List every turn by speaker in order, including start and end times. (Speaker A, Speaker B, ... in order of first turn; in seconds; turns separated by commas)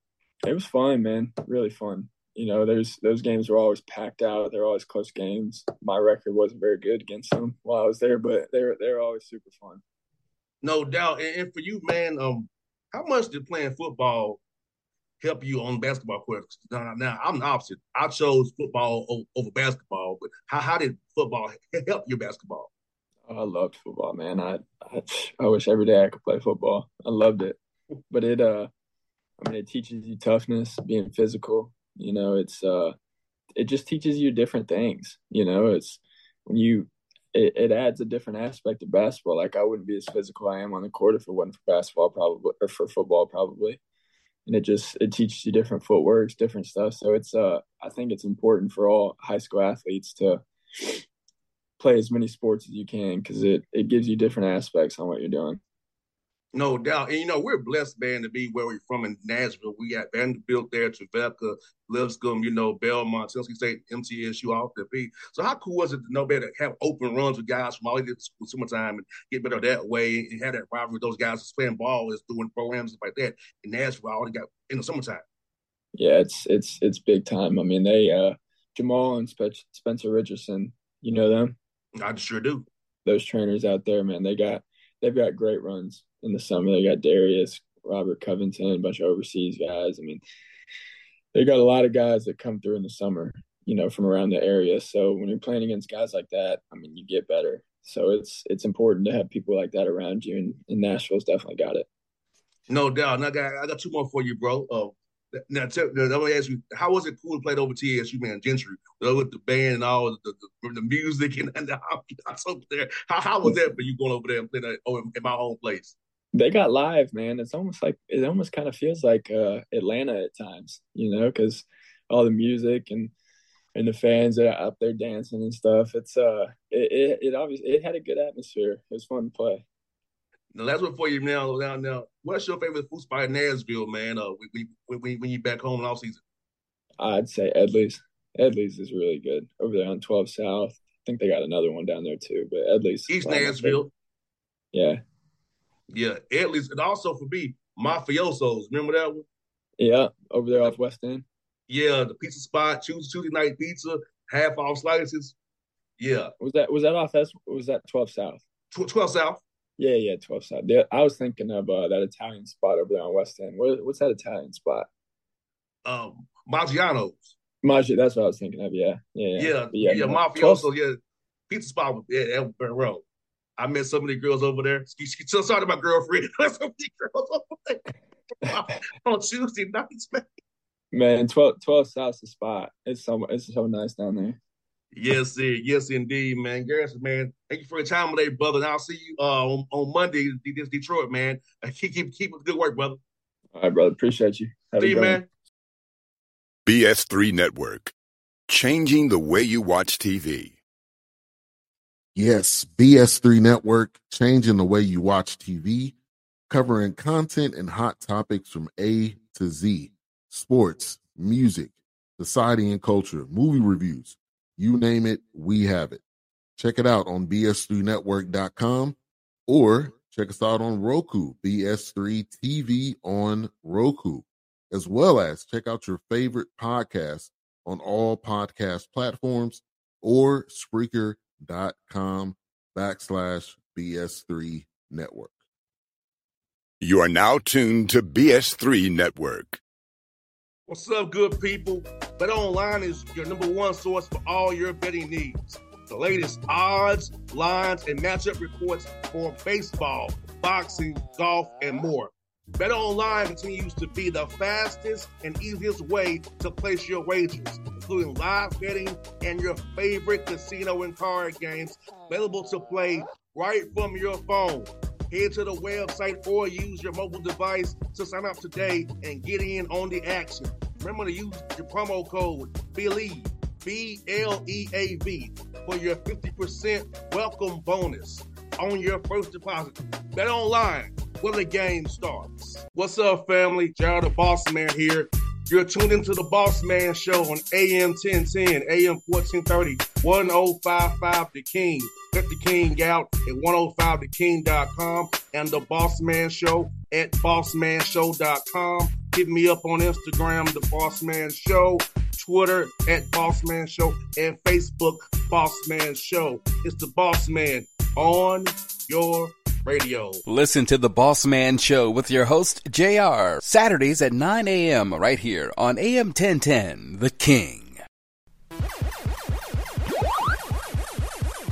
Speaker A: 0.5-9.8, Speaker B: 10.6-14.4, Speaker B: 15.2-22.7, Speaker A: 23.3-27.6, Speaker A: 28.1-28.7, Speaker A: 29.4-32.9, Speaker A: 33.6-43.8, Speaker A: 44.5-51.0, Speaker A: 51.8-55.6, Speaker B: 56.5-75.2, Speaker A: 76.0-81.5, Speaker B: 82.0-82.7, Speaker A: 83.1-90.2, Speaker A: 91.3-101.9, Speaker B: 102.7-116.0, Speaker A: 113.4-113.7, Speaker A: 116.3-123.1, Speaker A: 123.8-129.6, Speaker B: 130.5-136.2, Speaker A: 137.0-143.8, Speaker B: 143.1-143.9, Speaker A: 144.7-145.0, Speaker B: 145.9-149.2, Speaker A: 149.8-151.2, Speaker B: 151.7-155.3, Speaker B: 156.0-156.3, Speaker A: 156.4-158.4, Speaker B: 158.7-159.4, Speaker A: 159.8-164.9, Speaker B: 165.8-167.3, Speaker A: 167.6-170.7, Speaker B: 169.4-170.9, Speaker B: 171.5-173.0, Speaker B: 173.6-177.8, Speaker B: 178.4-180.3, Speaker A: 180.9-184.4, Speaker B: 184.9-193.0, Speaker A: 193.6-195.2, Speaker B: 194.8-195.3, Speaker C: 196.7-197.9, Speaker C: 198.5-200.6, Speaker D: 202.2-206.0, Speaker D: 206.5-216.0, Speaker D: 216.6-235.3, Speaker C: 236.8-239.6, Speaker B: 240.7-310.2, Speaker E: 310.3-317.8